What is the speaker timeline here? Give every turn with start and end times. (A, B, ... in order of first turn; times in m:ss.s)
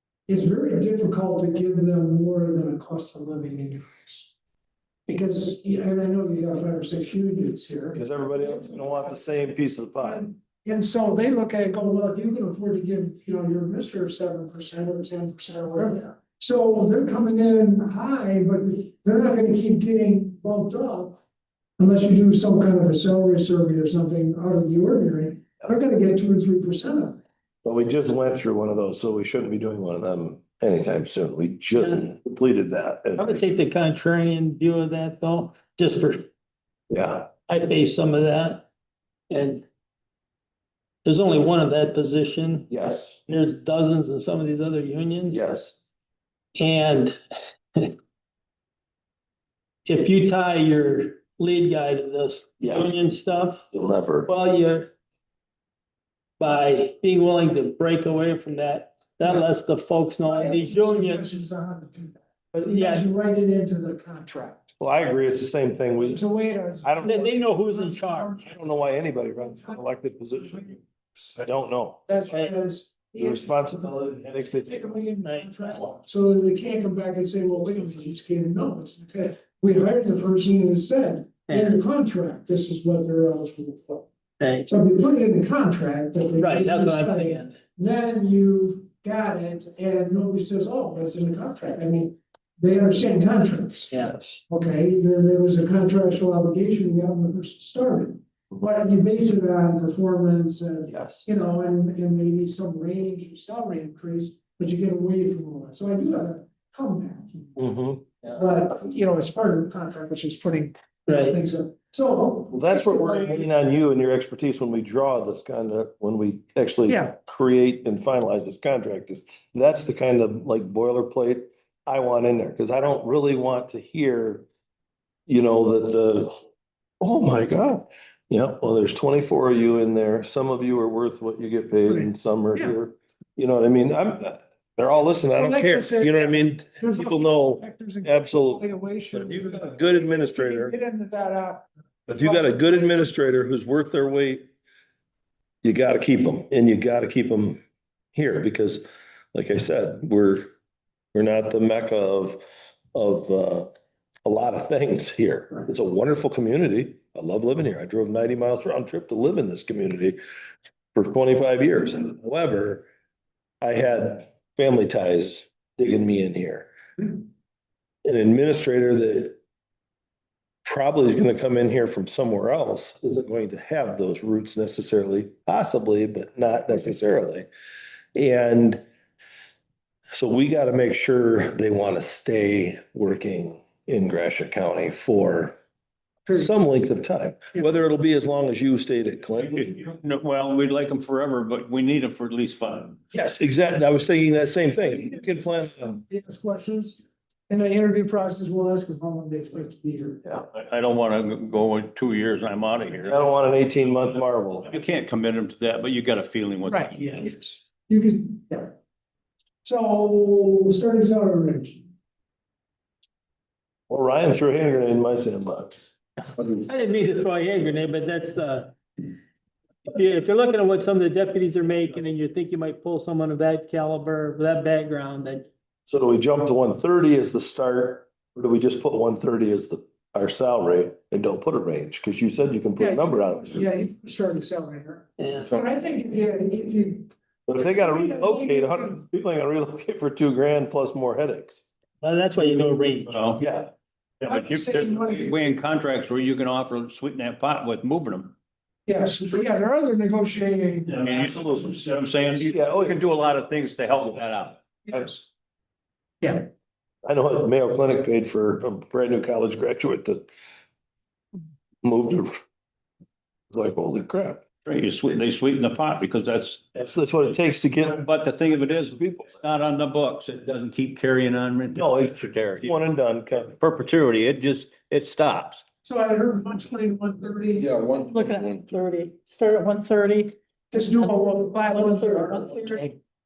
0:00.3-0:04.3 A
0:05.1-0:09.2 A
0:07.9-0:10.3 B
0:10.0-0:21.2 A
0:21.8-0:27.2 A
0:27.6-0:33.6 B
0:31.8-0:32.0 C
0:33.2-0:36.3 C
0:36.9-0:37.3 B
0:37.4-0:38.7 C
0:39.3-0:39.7 C
0:41.0-0:45.4 C
0:42.7-0:43.2 B
0:45.3-0:45.8 B
0:46.6-0:47.2 C
0:49.9-0:53.6 C
0:52.6-0:53.0 B
0:53.7-0:54.3 B
0:54.3-0:54.9 C
0:56.4-1:01.2 C
1:00.2-1:04.8 A
1:02.5-1:03.1 C
1:04.8-1:06.2 B
1:06.0-1:08.6 A
1:06.8-1:07.3 B
1:07.0-1:08.4 C
1:08.4-1:10.8 B
1:09.5-1:09.8 A
1:10.4-1:11.3 A
1:11.4-1:12.3 B
1:12.1-1:13.8 A
1:13.2-1:15.0 B
1:14.6-1:24.1 A
1:15.2-1:15.8 C
1:21.5-1:21.8 C
1:24.4-1:24.7 C
1:24.7-1:33.9 A
1:26.4-1:27.6 C
1:34.0-1:34.4 B
1:34.5-1:47.6 A
1:40.9-1:41.3 B
1:47.6-1:48.1 B
1:48.3-1:53.5 A
1:51.1-1:51.4 C
1:52.5-2:04.5 B
1:56.9-1:57.2 A
2:05.3-2:06.3 B
2:07.0-2:20.7 B
2:11.9-2:12.8 A
2:15.4-2:23.0 A
2:22.1-2:24.5 B
2:25.6-2:27.6 B
2:28.1-2:30.5 B
2:31.1-2:32.4 B
2:32.9-2:33.7 B
2:34.2-2:40.2 B
2:41.0-2:42.9 B
2:43.6-2:47.2 B
2:48.0-2:49.4 B
2:50.6-2:57.5 B
2:58.2-2:58.8 B
3:00.1-3:05.6 B
3:06.3-3:09.7 B
3:09.5-3:13.0 D
3:13.1-3:16.0 B
3:14.9-3:20.2 A
3:20.5-3:23.2 D
3:23.0-3:24.7 B
3:24.6-3:27.2 D
3:26.7-3:28.7 A
3:29.6-3:31.8 A
3:33.9-3:35.8 B
3:36.4-3:38.8 C
3:39.9-3:45.5 C
3:45.9-3:53.7 B
3:52.8-3:59.0 A
3:55.2-3:55.6 C
3:57.5-4:01.6 B
4:02.0-4:03.3 C
4:03.1-4:03.4 D
4:03.4-4:03.7 B
4:04.2-4:08.3 D
4:04.3-4:05.5 A
4:08.9-4:11.8 A
4:10.9-4:14.6 D
4:12.4-4:13.0 B
4:14.9-4:15.2 A
4:16.2-4:16.5 A
4:17.1-4:20.3 B
4:21.8-4:22.4 B
4:23.5-4:24.4 B
4:24.6-4:26.8 D
4:26.8-4:28.0 B
4:27.8-4:32.8 D
4:28.9-4:29.3 B
4:31.7-4:33.6 B
4:33.6-4:35.6 D
4:35.8-4:37.8 A
4:38.0-4:40.4 E
4:40.7-4:43.0 A
4:41.0-4:42.9 E